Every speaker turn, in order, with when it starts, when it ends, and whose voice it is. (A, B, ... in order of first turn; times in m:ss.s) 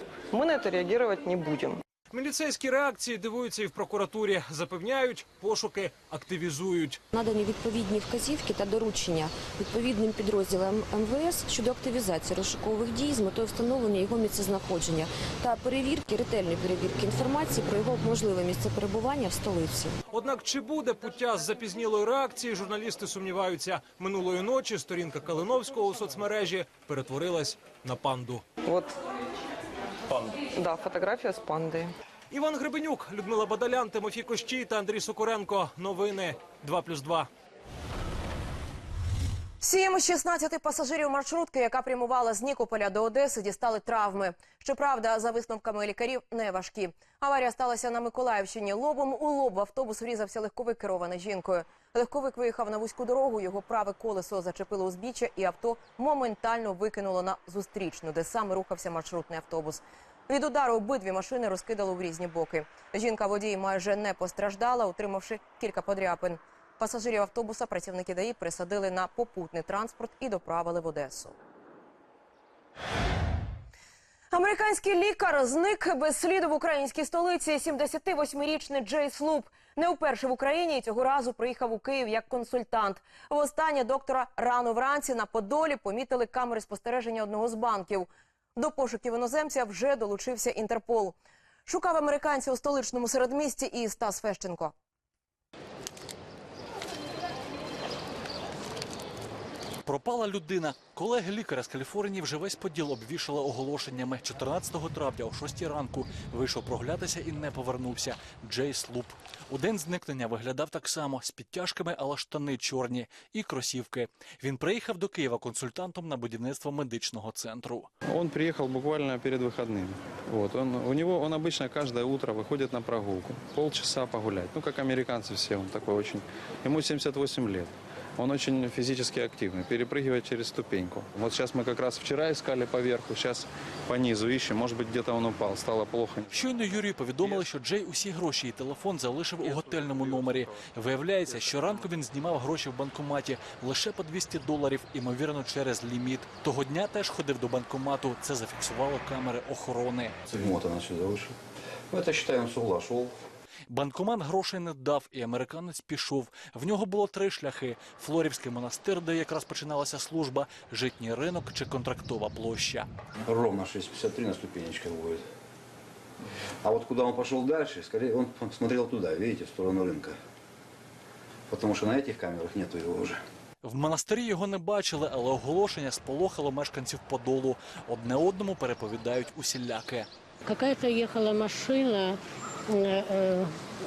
0:00.3-0:01.8 A
0:02.1-0:07.0 B
0:07.1-0:20.0 C
0:20.1-0:28.4 B
0:28.6-0:28.9 A
0:30.5-0:31.9 A
0:32.3-0:37.3 B
0:39.6-1:11.4 D
1:14.3-1:34.7 D
1:39.8-1:57.9 E
1:58.1-2:16.5 F
2:16.3-2:30.2 E
2:30.3-2:31.4 G
2:31.9-2:33.2 G
2:33.7-2:42.9 E
2:43.3-2:45.2 G
2:46.6-2:50.2 G
2:51.5-2:53.2 G
2:53.6-3:00.1 E
3:00.5-3:03.5 H